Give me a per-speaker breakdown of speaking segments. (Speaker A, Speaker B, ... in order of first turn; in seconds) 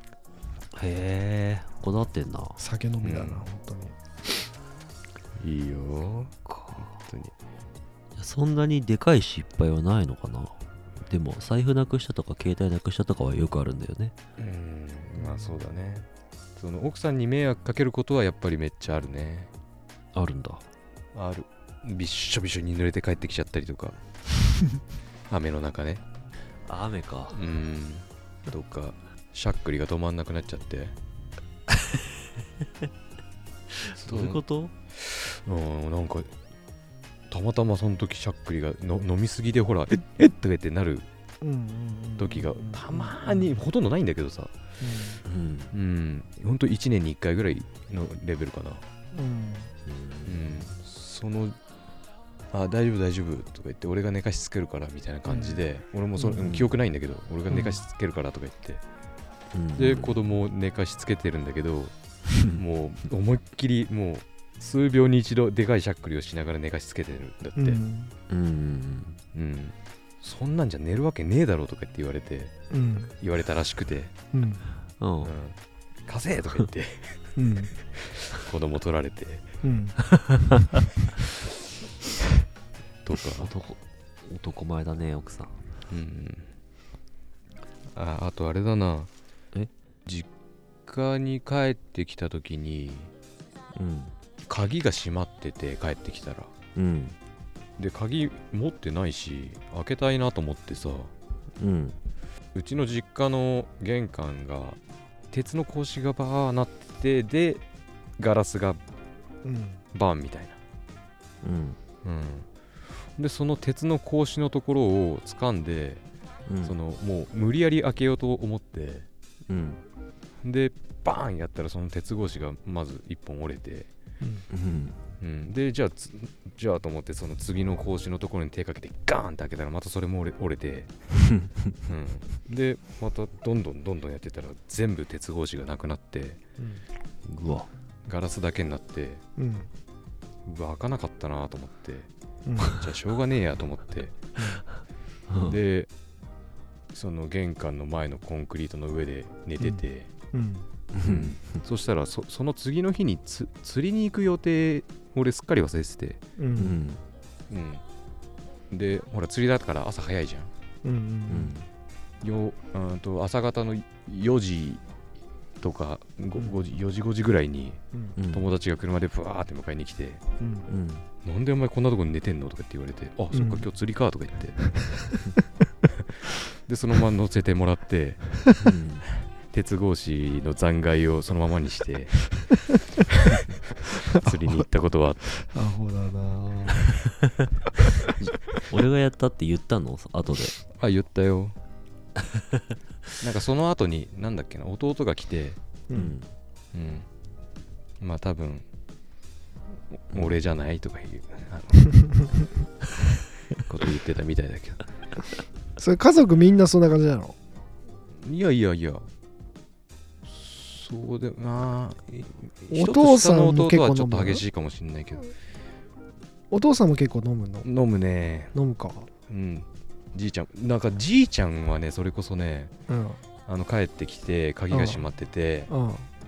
Speaker A: 0.7-2.6, 6.5-6.9, 8.2-14.2, 20.1-20.6, 26.7-27.4, 33.9-34.7, 45.2-45.7, 49.9-50.6, 56.3-56.8, 57.5-57.8, 59.5-60.2, 68.3-69.2, 75.0-75.3, 83.4-85.6, 93.8-94.1, 96.8-97.2, 101.6-102.0, 111.4-111.8, 116.5-116.8, 119.5-119.8, 124.5-125.0, 137.3-137.7, 145.3-145.6, 150.9-151.6, 156.6-157.0, 161.3-161.7, 168.2-168.5, 170.7-171.1, 178.6-179.1, 188.7-190.5, 195.9-196.3
Speaker B: 2.6-4.0, 15.2-15.7, 41.4-43.5, 44.8-45.2, 49.1-49.7, 55.3-55.7, 56.2-56.5, 67.6-68.2, 72.7-73.1, 74.3-74.7, 77.4-77.7, 79.6-80.1, 109.4-109.8, 124.2-124.5, 136.6-136.8, 139.4-139.7, 142.5-142.8, 144.4-144.6, 150.3-150.7, 156.4-156.8, 160.8-161.6, 166.4-166.6, 170.4-170.7, 173.3-173.7, 184.2-184.5, 185.4-187.0, 195.9-196.2, 205.8-207.4, 212.7-214.4, 216.5-217.7, 218.5-219.1, 222.9-223.2, 224.7-225.1, 225.7-226.1
Speaker C: 3.0-3.5, 5.4-7.3, 14.4-16.1, 16.6-19.5, 21.1-24.0, 25.3-26.0, 27.3-30.9, 33.9-34.4, 35.1-36.3, 37.3-41.1, 42.2-44.5, 45.7-48.8, 50.3-51.6, 52.5-58.8, 59.8-61.9, 62.5-67.8, 69.3-72.5, 73.2-74.1, 75.2-77.3, 78.0-79.5, 83.1-83.5, 85.9-86.5, 87.9-89.1, 90.9-93.1, 94.5-96.5, 97.8-101.1, 102.5-104.8, 105.3-107.6, 108.2-108.8, 109.9-110.6, 112.0-112.5, 113.2-116.0, 116.6-119.1, 120.4-123.9, 125.2-130.9, 131.8-136.4, 138.1-139.2, 140.5-142.1, 142.7-144.2, 145.4-145.9, 146.9-150.1, 151.0-156.2, 157.5-157.8, 158.7-160.5, 162.2-164.8, 165.6-167.8, 168.3-170.2, 171.2-174.8, 176.5-178.4, 179.5-182.6, 184.0-185.4, 190.8-191.6, 193.2-195.6, 196.7-197.1, 198.0-198.7, 199.9-202.3, 203.5-204.8, 208.2-209.1, 210.3-215.3, 217.6-218.5, 219.3-222.7, 223.5-225.7